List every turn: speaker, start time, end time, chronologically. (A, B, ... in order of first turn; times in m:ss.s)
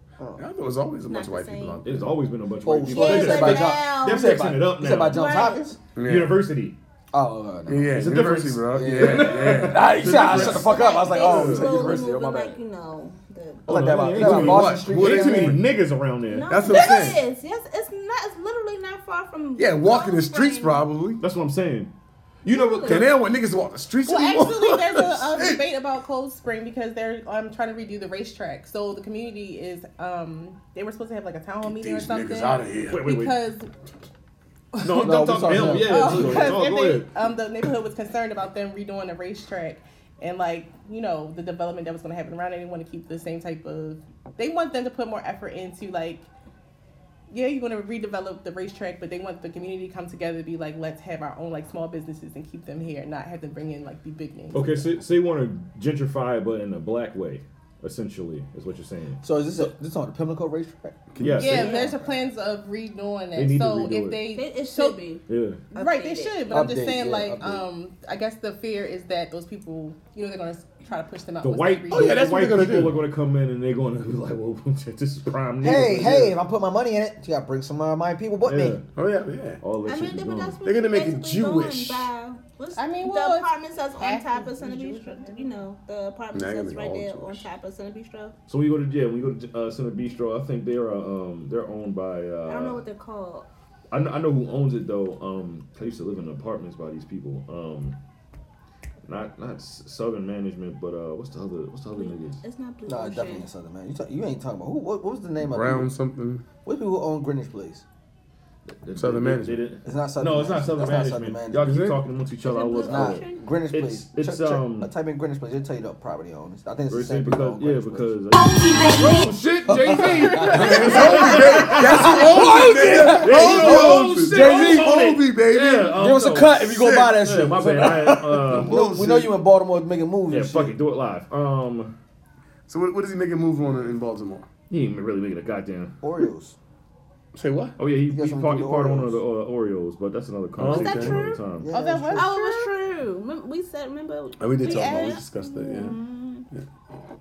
0:00.2-0:00.5 A
0:00.4-0:02.2 B
0:01.1-0:01.8 C
0:01.8-0:05.2 D
0:02.6-0:05.8 A
0:02.9-0:04.4 C
0:05.0-0:05.7 C
0:06.0-0:06.4 B
0:06.0-0:06.8 D
0:07.1-0:08.0 A
0:07.7-0:10.6 B
0:07.9-0:10.7 D
0:08.7-0:12.6 A
0:10.4-0:13.6 C
0:11.2-0:11.7 D
0:11.3-0:11.7 B
0:13.7-0:15.6 A
0:13.7-0:16.6 D
0:14.2-0:15.6 B
0:16.3-0:20.8 C
0:16.5-0:17.2 B
0:19.6-0:21.2 B
0:21.2-0:21.9 D
0:22.4-0:23.2 D
0:22.5-0:23.1 C
0:22.8-0:25.6 B
0:24.0-0:33.7 E
0:31.6-0:33.2 B
0:32.9-0:33.4 D
0:34.8-0:37.1 D
0:34.8-0:46.3 E
0:34.9-0:36.6 A
0:47.3-0:54.9 E
0:54.5-0:59.7 D
0:59.2-1:01.0 A
1:01.1-1:01.9 B
1:01.2-1:01.9 D
1:01.4-1:05.1 E
1:03.4-1:04.3 D
1:04.3-1:06.6 C
1:05.3-1:05.6 D
1:05.7-1:12.4 E
1:06.5-1:07.7 A
1:11.4-1:16.4 D
1:11.9-1:13.0 B
1:15.6-1:18.8 A
1:18.4-1:18.8 D
1:19.0-1:19.6 B
1:19.6-1:20.6 D
1:19.8-1:28.3 C
1:20.6-1:22.1 B
1:22.8-1:25.6 E
1:26.3-1:27.5 B
1:28.5-1:32.8 D
1:32.5-1:33.5 C
1:33.9-1:38.0 D
1:39.1-1:42.4 D
1:41.9-1:43.5 C
1:42.9-1:45.9 A
1:45.4-1:46.4 B
1:46.6-1:47.8 A
1:48.7-1:54.9 D
1:49.0-1:49.6 B
1:49.8-1:51.8 A
1:51.6-1:52.0 B
1:52.4-1:53.5 C
1:52.7-1:58.2 A
1:56.9-2:08.8 D
1:59.7-2:05.2 A
2:00.5-2:07.3 B
2:06.0-2:10.8 A
2:08.4-2:09.4 B
2:10.3-2:11.9 D
2:12.7-2:14.5 B
2:14.7-2:16.0 D
2:16.0-2:16.6 A
2:17.3-2:17.8 B
2:17.8-2:21.7 D
2:18.1-2:19.2 A
2:20.6-2:21.3 B
2:20.7-2:21.4 C
2:21.6-2:22.3 A
2:21.7-2:22.7 E
2:22.1-2:26.5 C
2:24.4-2:26.0 B
2:24.6-2:25.2 E